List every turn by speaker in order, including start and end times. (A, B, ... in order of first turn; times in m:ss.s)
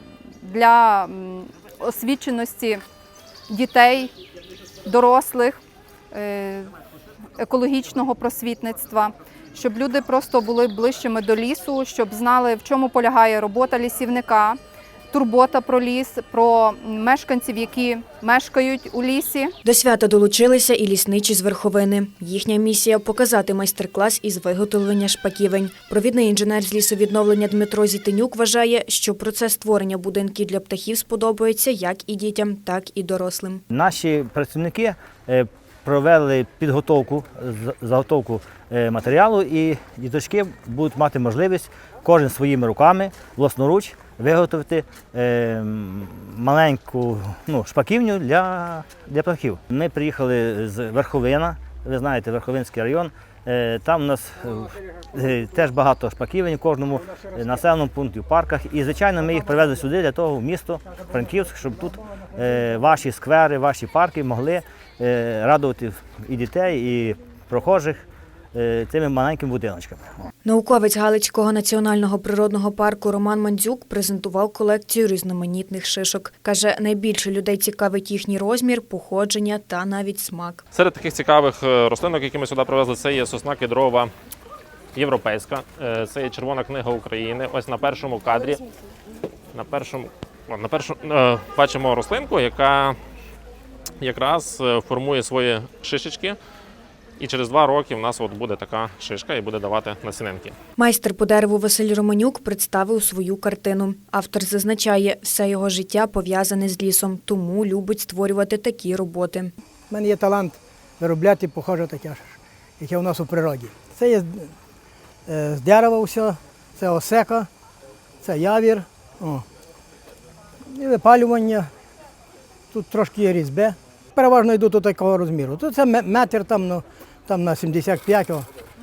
0:00.4-0:02.8 A
0:03.5-0:04.1 A
0:04.8-0:05.6 A
0:06.1-0:06.7 A
0:07.4-0:14.6 A
0:15.1-0:19.5 A
0:19.6-0:33.6 B
0:33.7-1:10.2 C
1:10.4-1:20.6 B
1:20.7-1:24.1 D
1:25.0-1:28.6 D
1:29.5-1:33.0 D
1:34.0-1:36.4 D
1:37.2-1:40.6 D
1:40.8-1:49.5 B
1:49.9-1:54.5 E
1:55.3-1:57.5 E
1:58.2-1:59.4 E
2:00.7-2:01.7 E
2:02.7-2:08.5 E